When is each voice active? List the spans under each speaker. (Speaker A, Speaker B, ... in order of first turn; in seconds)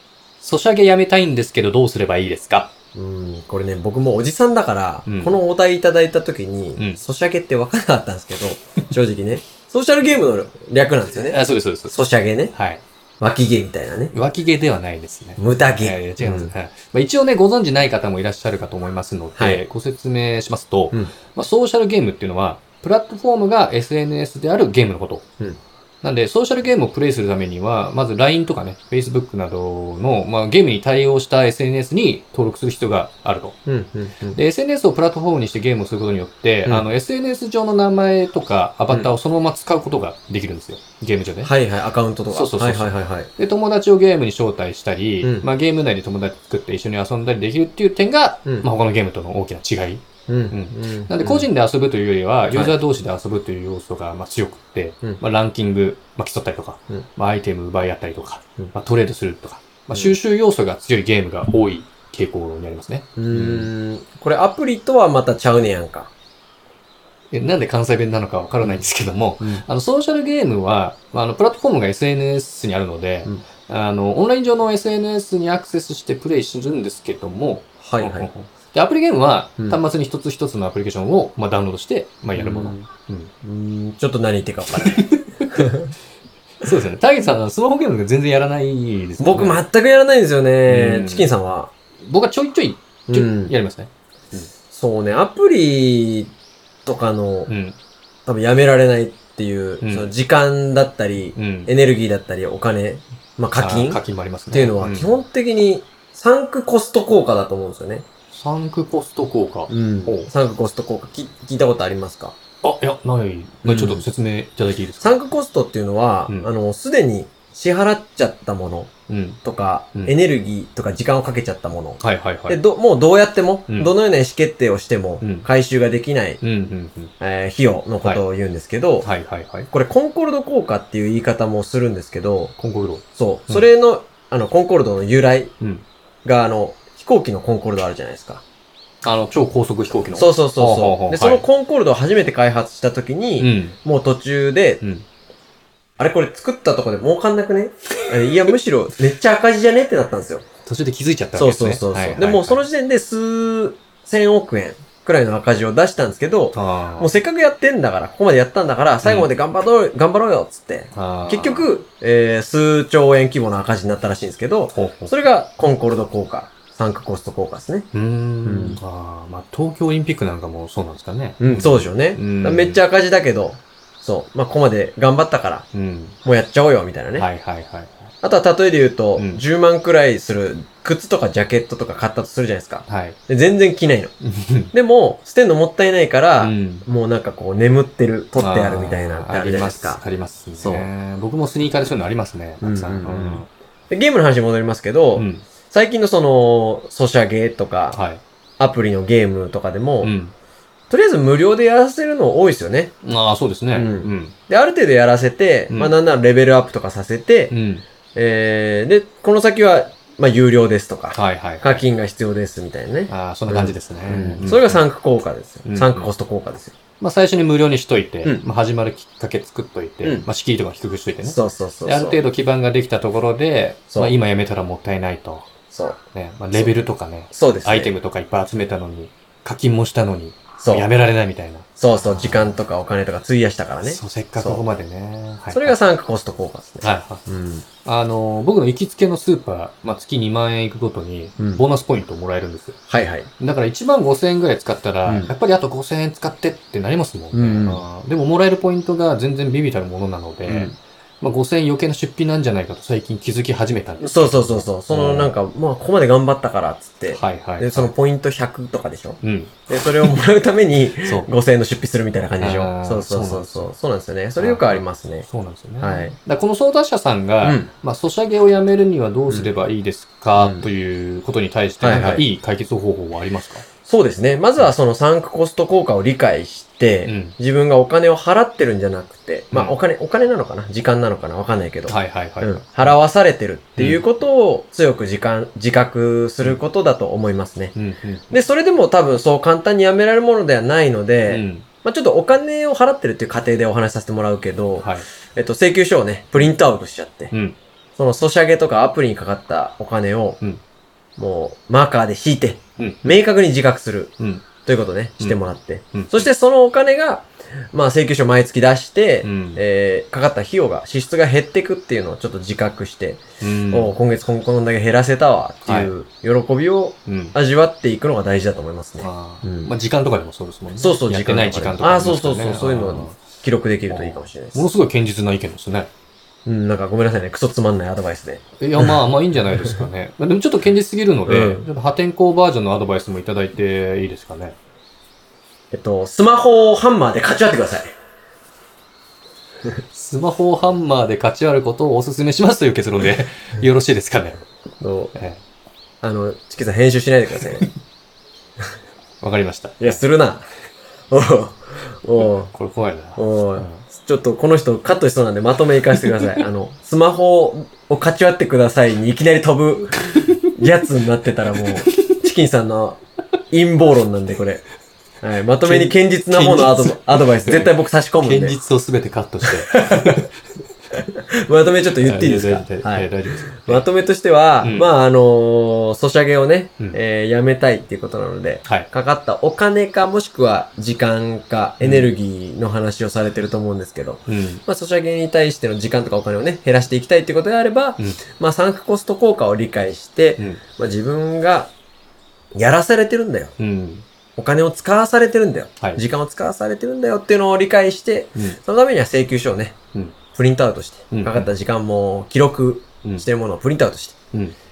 Speaker A: 0.4-2.7, 5.0-5.3, 11.2-11.9, 12.5-12.8, 14.1-25.3, 26.0-33.6, 34.3-41.5, 42.3-63.7, 67.3-83.3, 84.9-85.7, 86.6-89.6, 90.7-91.3, 92.0-94.5, 97.5-97.8, 99.8-100.1, 101.3-101.7, 103.5-105.1, 108.3-110.3, 112.6-115.2, 119.1-119.4, 122.0-122.6, 125.2-125.5, 126.4-127.1, 129.0-129.7, 132.6-133.7, 139.0-141.4, 143.4-143.7, 150.7-152.7, 156.5-157.1, 159.0-159.3, 160.9-161.7, 164.7-165.2, 167.9-172.8, 175.7-176.2, 177.2-178.1, 179.2-179.4, 182.9-183.2, 184.2-184.7, 186.4-186.8, 188.4-193.5, 195.1-195.4, 197.9-198.2, 200.0-200.3, 203.0-204.3, 207.5-207.8, 211.1-211.8, 213.1-214.8, 215.6-216.1, 217.0-225.5, 226.1-232.6, 233.8-235.8, 236.8-237.2, 237.8-242.8, 243.4-255.3, 257.1-257.9, 259.2-259.6, 261.0-261.3, 262.4-263.7, 264.4-273.6, 277.0-277.4, 281.9-283.0, 283.8-284.0, 287.7-288.3, 291.3-291.6, 294.8-295.1, 297.3-297.6, 302.8-303.1, 304.2-304.4, 305.9-306.3, 309.2-309.6, 313.4-314.0, 315.6-315.9, 317.1-317.3, 319.0-323.2, 323.9-325.9, 328.6-334.6, 339.9-344.4, 345.1-345.4, 349.2-350.0, 352.2-353.8, 356.0-356.4, 360.2-360.5, 361.9-362.1, 365.6-370.3, 372.0-373.8, 374.6-374.9, 381.8-382.1, 384.3-384.6, 393.6-394.0, 401.1-401.5
Speaker B: 2.9-12.5, 13.2-14.1, 15.4-16.5, 19.4-19.6, 33.6-34.4, 41.4-43.3, 45.2-45.5, 50.3-51.5, 63.2-66.1, 68.6-68.9, 69.4-69.6, 77.8-78.3, 82.3-82.9, 83.4-85.9, 89.2-91.7, 93.1-93.5, 94.7-96.3, 96.8-97.5, 98.2-108.0, 109.7-112.3, 113.6-114.0, 115.0-118.9, 119.4-126.4, 127.2-129.1, 129.7-132.5, 133.2-135.5, 136.2-138.4, 140.1-144.8, 146.0-150.4, 151.3-167.9, 168.4-168.8, 171.4-175.7, 176.2-177.2, 178.2-184.1, 184.7-190.0, 190.6-190.9, 192.6-198.0, 198.6-200.1, 200.9-202.9, 203.7-207.5, 208.1-216.8, 221.2-222.2, 223.9-224.2, 225.7-226.0, 226.5-226.8, 227.3-227.9, 230.6-230.9, 231.8-234.6, 235.5-237.7, 241.4-241.6, 242.9-243.3, 245.1-245.3, 247.3-247.8, 250.5-250.8, 254.0-265.2, 265.8-266.1, 267.4-267.7, 270.3-270.6, 271.8-272.2, 273.9-287.7, 288.3-297.3, 298.0-300.4, 301.2-319.7, 320.7-324.7, 326.4-329.0, 331.2-331.7, 335.7-337.9, 344.8-345.1, 346.0-347.7, 349.8-350.4, 351.1-352.5, 353.2-364.6, 365.2-368.6, 369.5-370.2, 370.9-391.7, 392.5-393.5, 394.4-399.8, 400.3-404.2